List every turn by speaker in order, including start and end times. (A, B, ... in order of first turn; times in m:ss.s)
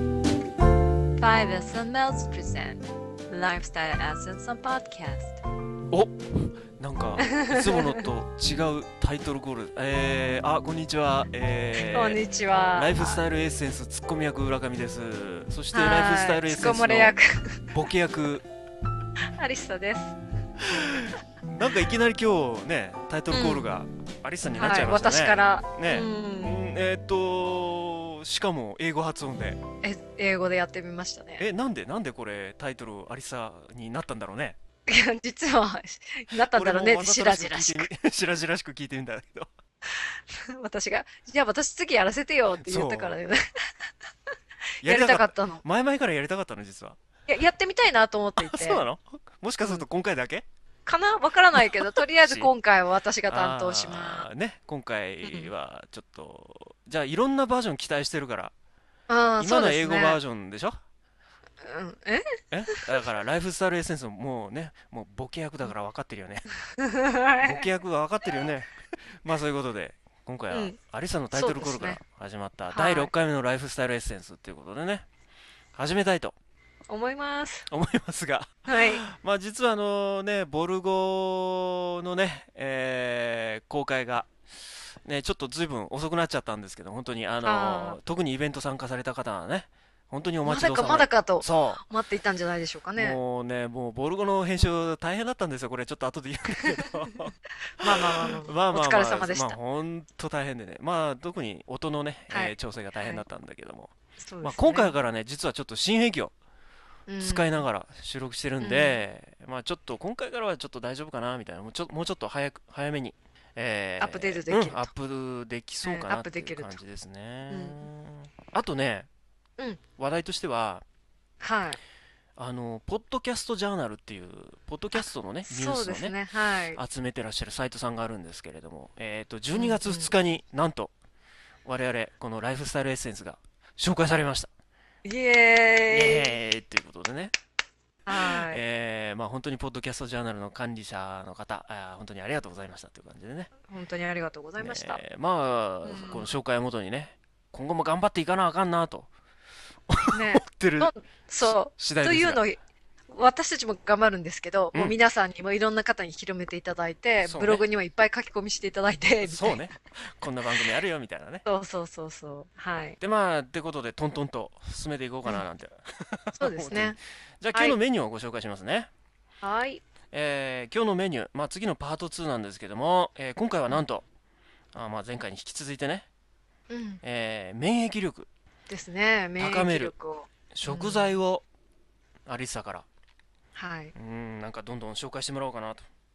0:01.2-0:05.4 A
0:05.9-0:12.2 B
0:07.2-0:08.0 A
0:11.7-0:13.2 A
0:12.7-0:17.2 B
0:15.7-0:17.7 A
0:17.7-0:18.4 B
0:19.4-0:20.2 A
0:20.7-0:29.6 B
0:23.3-0:23.7 A
0:24.5-0:26.6 A
0:29.8-0:31.4 A
0:31.4-0:34.6 B
0:34.8-0:37.9 A
0:36.3-0:39.5 B
0:39.9-0:43.4 A
0:42.6-0:43.2 B
0:44.8-0:45.6 A
0:44.8-0:47.0 B
0:47.3-0:48.8 A
0:48.4-0:50.4 B
0:50.8-0:54.3 A
0:51.5-0:52.5 B
0:53.2-0:58.5 B
0:55.2-0:55.5 A
0:59.1-1:00.2 A
0:59.4-1:00.8 B
1:01.6-1:02.8 A
1:02.5-1:06.5 B
1:06.8-1:07.7 A
1:07.4-1:15.0 B
1:10.5-1:10.8 A
1:11.3-1:12.0 A
1:12.7-1:13.1 A
1:15.8-1:16.3 B
1:16.9-1:17.7 A
1:17.7-1:24.3 B
1:18.6-1:19.0 A
1:25.0-1:31.8 B
1:27.4-1:28.0 A
1:30.4-1:33.2 A
1:32.9-1:46.3 B
1:36.6-1:37.2 A
1:37.8-1:39.6 A
1:42.3-1:43.2 A
1:44.2-1:44.9 A
1:47.1-1:47.6 A
1:47.2-1:59.1 B
1:48.6-1:49.0 A
1:54.0-1:54.9 A
1:55.8-1:56.8 A
1:57.5-1:57.8 A
2:00.0-2:00.8 B
2:01.4-2:01.8 A
2:02.4-2:06.2 B
2:05.0-2:06.8 A
2:06.7-2:10.9 B
2:09.5-2:10.1 A
2:11.6-2:14.5 B
2:15.0-2:16.3 A
2:15.9-2:17.3 B
2:18.0-2:18.6 A
2:18.1-2:23.5 B
2:23.6-2:25.0 A
2:24.6-2:29.1 B
2:25.8-2:26.3 A
2:29.9-2:32.4 B
2:30.1-2:32.6 A
2:33.1-2:39.6 A
2:37.2-2:37.6 B
2:39.2-2:41.4 B
2:41.4-2:43.0 A
2:43.0-2:48.9 B
2:46.4-2:47.0 A
2:49.4-2:49.8 A
2:50.1-2:54.0 B
2:54.7-2:56.1 B
2:56.7-2:57.0 A
2:57.0-2:58.3 B
2:58.7-3:01.1 A
2:59.4-2:59.9 B
3:00.5-3:01.4 B
3:02.2-3:02.8 B
3:03.5-3:03.9 A
3:03.9-3:05.8 B